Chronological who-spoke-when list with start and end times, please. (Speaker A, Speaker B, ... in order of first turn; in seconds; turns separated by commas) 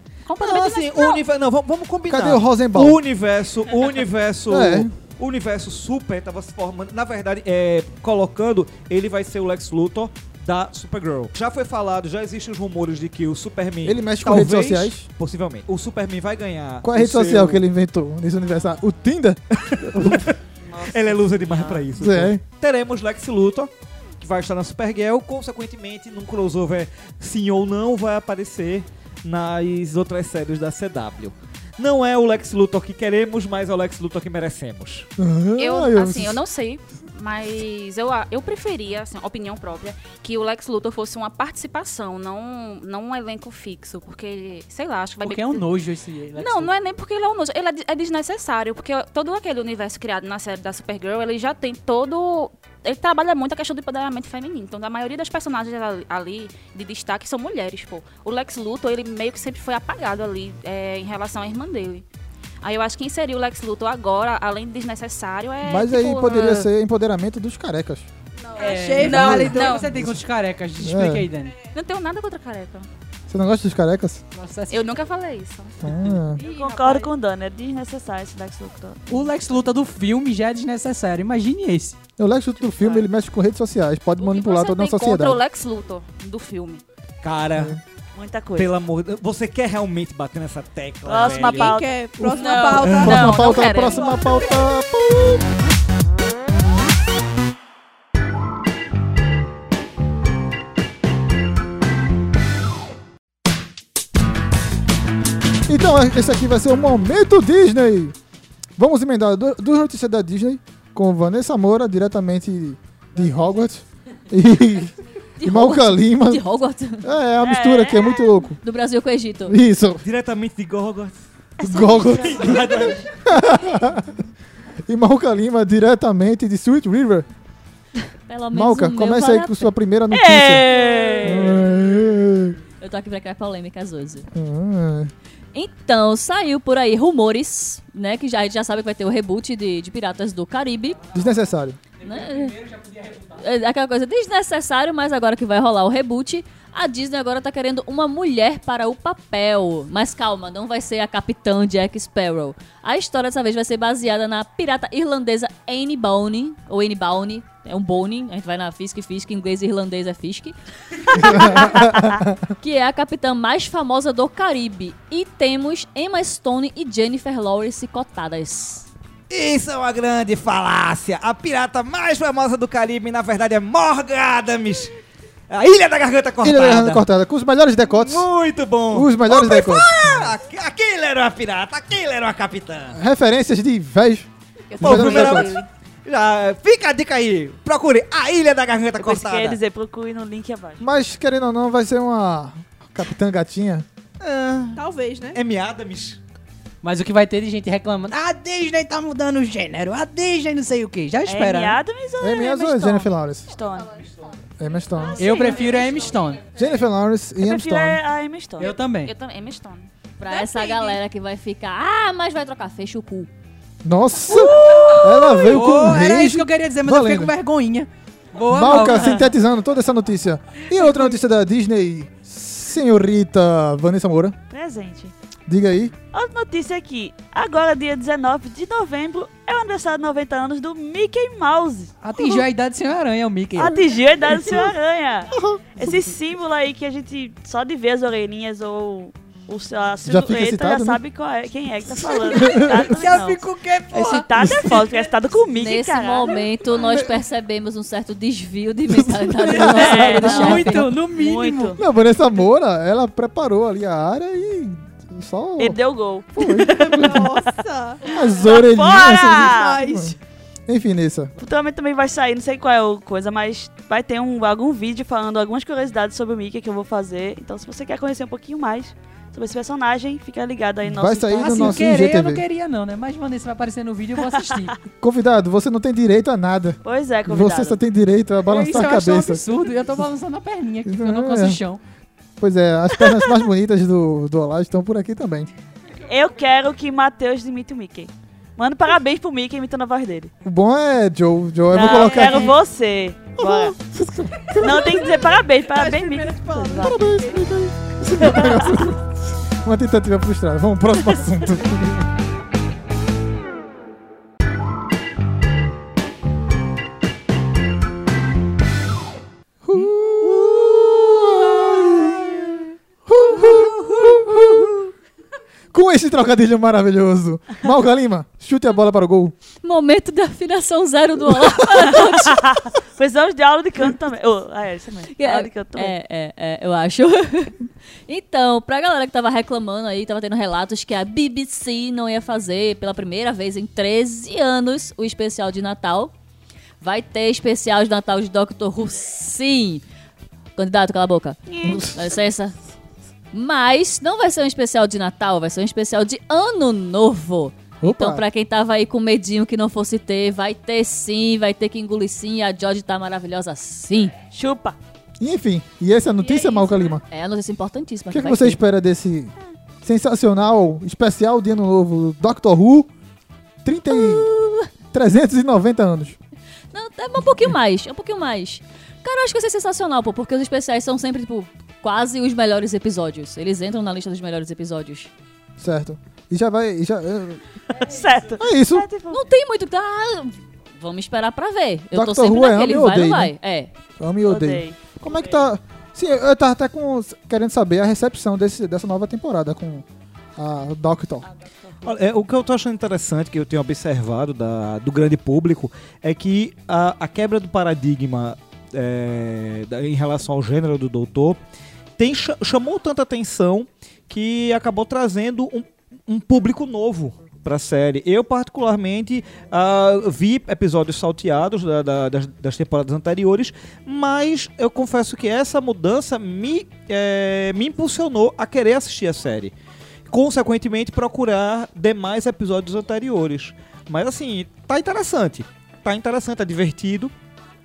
Speaker A: 0.2-1.2, Speaker B: 0.4-17.6, Speaker C: 2.1-3.0, Speaker C: 4.5-4.9, Speaker C: 13.8-15.1, Speaker C: 16.8-20.3, Speaker B: 19.6-35.1, Speaker D: 20.6-21.9, Speaker C: 21.9-22.4, Speaker C: 35.2-36.4, Speaker A: 35.6-45.7, Speaker E: 45.2-46.7, Speaker A: 46.4-62.0, Speaker A: 62.6-66.7, Speaker C: 65.6-68.1, Speaker F: 68.4-69.8, Speaker E: 68.6-71.5, Speaker C: 69.0-70.2, Speaker A: 69.1-69.9, Speaker C: 70.8-71.3, Speaker A: 71.7-72.9, Speaker C: 73.3-74.2, Speaker E: 74.3-75.0, Speaker A: 74.7-75.8, Speaker C: 75.8-76.4, Speaker F: 76.1-77.1, Speaker D: 76.4-79.2, Speaker E: 79.1-82.0, Speaker C: 82.2-85.4, Speaker D: 82.6-83.1, Speaker A: 84.2-86.8, Speaker B: 87.2-87.8, Speaker C: 87.5-87.8, Speaker D: 88.1-88.7, Speaker B: 88.5-91.8, Speaker D: 91.0-92.0, Speaker F: 91.4-93.6, Speaker A: 92.2-94.5, Speaker B: 92.7-93.2, Speaker C: 92.9-95.5, Speaker C: 105.7-108.1, Speaker C: 108.8-116.4, Speaker G: 115.4-117.1, Speaker C: 117.0-118.6, Speaker D: 117.4-118.3, Speaker G: 118.6-119.6, Speaker C: 119.5-120.0, Speaker B: 120.0-121.2, Speaker C: 121.6-124.2, Speaker D: 121.7-123.0, Speaker B: 121.8-123.0, Speaker C: 124.9-127.3, Speaker G: 128.3-129.7, Speaker C: 128.5-130.7, Speaker D: 130.1-131.7, Speaker C: 131.2-132.6, Speaker G: 132.8-134.3, Speaker C: 134.3-135.1, Speaker G: 135.5-141.0, Speaker C: 141.1-141.8, Speaker E: 142.0-143.4, Speaker G: 142.0-142.5, Speaker G: 143.4-162.1, Speaker C: 161.2-162.3, Speaker G: 162.6-168.9, Speaker B: 169.3-174.9, Speaker B: 175.5-177.1, Speaker C: 176.4-178.3, Speaker B: 177.9-183.0, Speaker C: 178.9-180.4, Speaker C: 182.9-184.3, Speaker A: 184.7-185.7, Speaker B: 184.7-189.6, Speaker C: 184.8-185.6, Speaker D: 189.0-190.8, Speaker C: 190.8-193.8, Speaker B: 194.2-196.2, Speaker F: 194.7-195.4, Speaker E: 196.8-201.8, Speaker D: 201.2-204.1, Speaker C: 202.2-203.5, Speaker C: 204.6-205.5, Speaker E: 205.1-206.5, Speaker D: 205.3-205.8, Speaker C: 206.5-208.0, Speaker D: 207.4-208.8, Speaker E: 208.6-209.1, Speaker A: 209.0-210.9, Speaker G: 210.2-213.3, Speaker C: 213.8-217.3, Speaker E: 214.3-219.2, Speaker C: 218.5-224.4, Speaker D: 218.7-219.2, Speaker D: 224.5-225.1, Speaker C: 225.5-225.9, Speaker D: 226.1-232.4, Speaker E: 232.0-233.8, Speaker D: 233.6-246.4, Speaker C: 235.3-236.0, Speaker C: 240.0-241.0, Speaker C: 241.9-243.1, Speaker E: 242.5-245.0, Speaker C: 244.4-244.8, Speaker G: 245.5-250.9, Speaker C: 246.7-247.2, Speaker C: 248.9-250.8, Speaker E: 249.5-251.8, Speaker D: 249.6-251.8, Speaker C: 251.8-255.8, Speaker D: 255.6-257.5, Speaker C: 256.3-257.2, Speaker F: 256.7-258.3, Speaker D: 258.1-259.8, Speaker C: 258.1-260.1, Speaker F: 259.1-260.1, Speaker C: 260.7-261.3, Speaker D: 261.4-271.9, Speaker C: 270.8-272.4, Speaker E: 271.4-274.7, Speaker D: 274.3-274.6, Speaker C: 275.0-279.4, Speaker D: 276.8-277.8, Speaker E: 278.5-281.8, Speaker C: 280.9-281.6, Speaker C: 282.4-285.5, Speaker D: 286.1-290.3, Speaker C: 290.4-292.6, Speaker D: 291.7-293.7, Speaker F: 291.8-292.5, Speaker C: 293.4-295.1, Speaker D: 294.6-297.0, Speaker E: 295.8-296.8, Speaker F: 295.9-297.3, Speaker C: 296.7-302.0, Speaker D: 298.1-298.8, Speaker C: 309.6-312.4, Speaker C: 313.1-314.9, Speaker C: 315.7-319.3, Speaker G: 319.6-322.4, Speaker D: 321.8-325.9, Speaker G: 325.1-327.6, Speaker G: 328.1-336.1, Speaker G: 336.8-339.8, Speaker G: 340.6-341.4, Speaker D: 341.5-341.9, Speaker C: 341.6-342.0, Speaker G: 341.9-342.5, Speaker G: 343.3-354.1, Speaker C: 347.8-348.2, Speaker D: 354.3-354.8, Speaker C: 355.2-357.0, Speaker G: 357.1-358.6, Speaker C: 358.1-362.9, Speaker C: 363.6-364.3, Speaker G: 363.9-364.7, Speaker C: 364.9-366.2, Speaker G: 366.7-375.1, Speaker C: 375.6-377.4, Speaker D: 377.7-379.2, Speaker C: 378.4-378.9, Speaker G: 379.1-383.7, Speaker C: 381.9-383.3, Speaker C: 384.0-389.8, Speaker D: 384.2-384.8, Speaker C: 390.4-391.3, Speaker D: 391.2-391.9, Speaker B: 391.8-401.4, Speaker B: 402.0-419.5, Speaker B: 420.1-427.1